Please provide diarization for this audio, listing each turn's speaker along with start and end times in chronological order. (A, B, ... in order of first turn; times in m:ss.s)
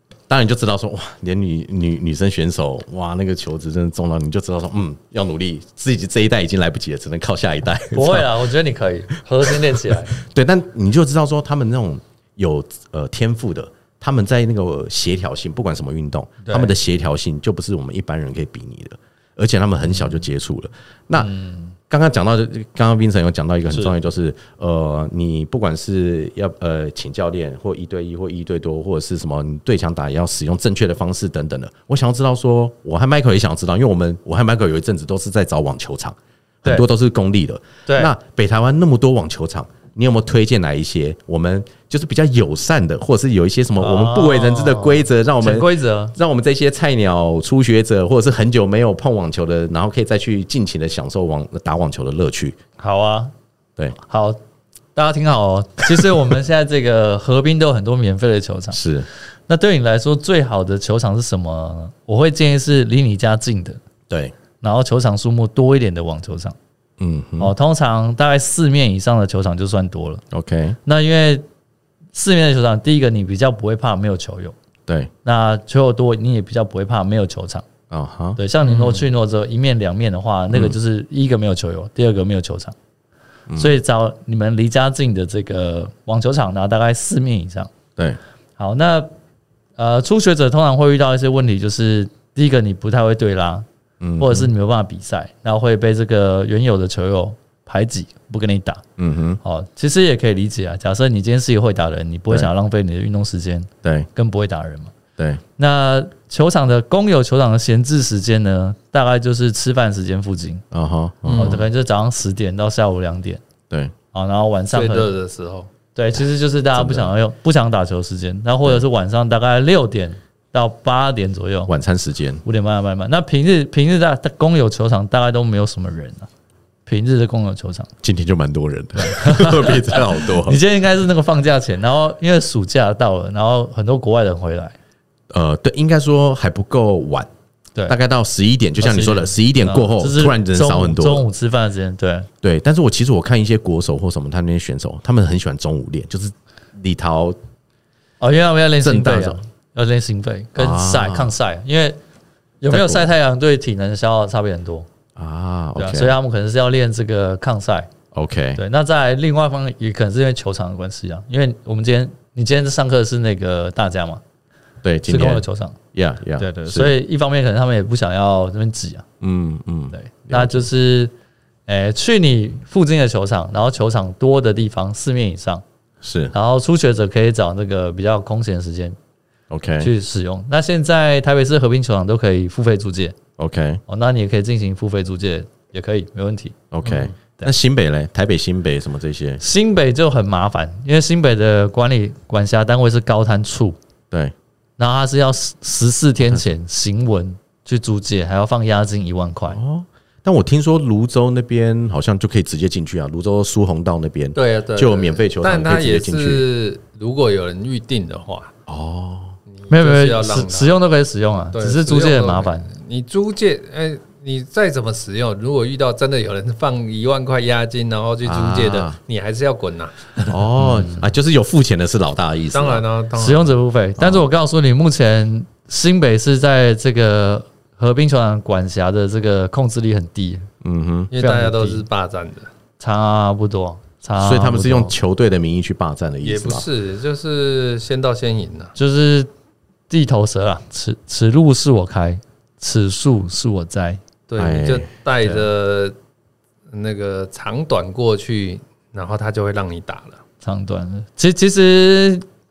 0:00.3-0:08.3 A
0:07.9-0:10.2 B
0:10.1-0:21.3 A
0:21.2-0:21.7 B
0:21.9-0:52.6 A
0:37.8-0:38.1 B
0:43.8-0:46.1 B
0:52.8-0:53.3 B
0:54.0-0:54.4 B
0:55.0-0:58.8 B
0:58.7-0:59.0 A
0:59.5-1:03.8 B
1:04.1-1:04.3 A
1:04.6-1:06.6 B
1:07.0-1:07.5 A
1:07.4-1:10.2 B
1:10.3-1:10.8 A
1:10.8-1:11.4 B
1:12.1-1:14.5 B
1:15.2-1:17.7 B
1:17.9-1:18.4 A
1:18.4-1:22.8 B
1:20.5-1:20.8 A
1:23.5-1:23.7 A
1:23.6-1:27.7 B
1:28.6-1:29.1 B
1:29.8-1:33.6 B
1:34.0-1:34.5 A
1:34.2-1:38.8 B
1:39.0-1:39.4 A
1:39.4-1:44.9 B
1:45.6-1:50.6 B
1:50.7-1:51.6 A
1:51.2-1:51.6 C
1:51.3-1:53.4 B
1:54.1-1:55.1 B
1:54.7-1:55.7 C
1:55.9-2:01.7 B
1:56.7-1:57.1 A
2:01.7-2:02.4 A
2:02.4-2:06.3 B
2:06.8-2:07.9 B
2:08.0-2:10.6 A
2:09.0-2:14.8 B
2:15.3-2:17.3 A
2:17.9-2:21.2 A
2:18.8-2:22.3 B
2:22.4-2:27.4 A
2:28.2-2:32.0 B
2:28.8-2:29.4 A
2:30.6-2:31.3 A
2:32.6-2:34.9 B
2:32.7-2:33.1 A
2:35.2-2:36.2 A
2:35.8-2:37.9 B
2:38.1-2:38.6 A
2:38.6-2:44.2 B
2:44.8-2:46.9 A
2:45.1-2:45.8 B
2:46.4-2:49.0 B
2:49.2-2:50.6 A
2:49.9-2:51.1 B
2:51.7-2:55.6 B
2:56.0-2:56.3 A
2:56.3-2:59.0 B
2:59.5-2:59.9 A
2:59.8-3:03.2 B
3:03.4-3:03.8 A
3:03.9-3:06.6 B
3:06.7-3:09.4 A
3:09.4-3:13.8 B
3:14.8-3:19.6 B
3:19.5-3:26.5 A
3:24.3-3:28.5 C
3:28.7-3:29.4 A
3:29.5-3:30.8 C
3:29.7-3:32.7 B
3:31.5-3:40.3 C
3:38.2-3:39.0 A
3:40.3-3:42.8 A
3:40.6-3:41.0 B
3:42.5-3:43.5 C
3:43.2-3:50.5 B
3:44.0-3:44.2 A
3:50.6-3:51.1 A
3:51.1-3:52.5 C
3:51.2-3:51.8 B
3:52.8-3:54.9 B
3:54.2-3:56.6 A
3:56.2-3:58.7 C
3:58.8-3:59.3 B
3:59.9-4:04.0 B
4:04.3-4:05.9 C
4:04.4-4:04.9 A
4:06.7-4:10.2 C
4:10.4-4:12.3 B